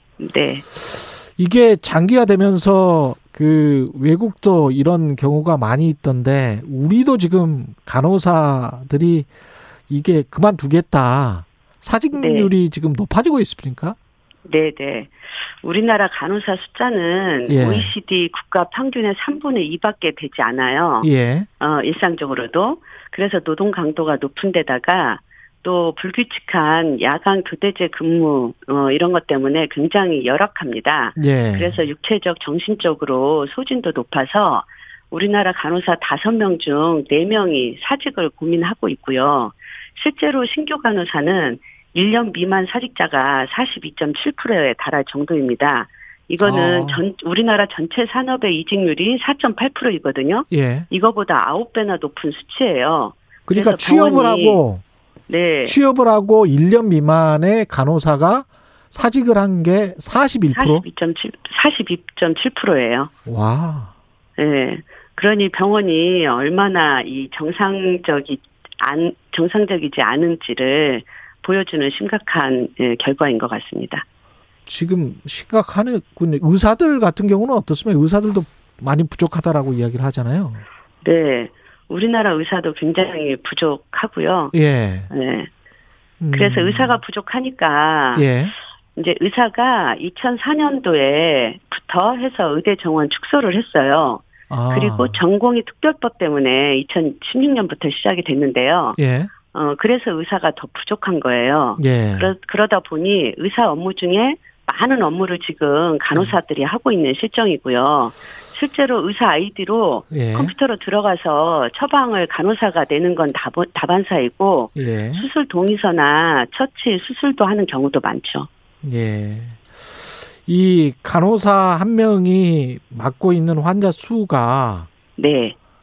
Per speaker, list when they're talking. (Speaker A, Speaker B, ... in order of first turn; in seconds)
Speaker A: 0.2-0.7, 12.1-12.5, 14.4-21.1, 21.6-54.6, 55.3-55.8, 60.5-63.1, 64.4-74.0, 81.0-84.5, 85.1-85.5, 86.3-88.3, 89.0-99.0, 99.5-118.5, 125.2-125.5
Speaker B: 0.8-9.3, 9.9-13.9, 17.5-17.9, 21.0-21.5, 31.1-31.9, 46.4-47.0, 50.5-50.9, 53.5-54.8, 55.6-60.8, 63.2-63.9, 74.7-80.6, 84.5-85.1, 86.2-87.0, 88.1-88.5, 94.5-95.2, 99.0-99.3, 101.8-102.3, 110.1-110.5, 114.8-115.2, 118.8-124.9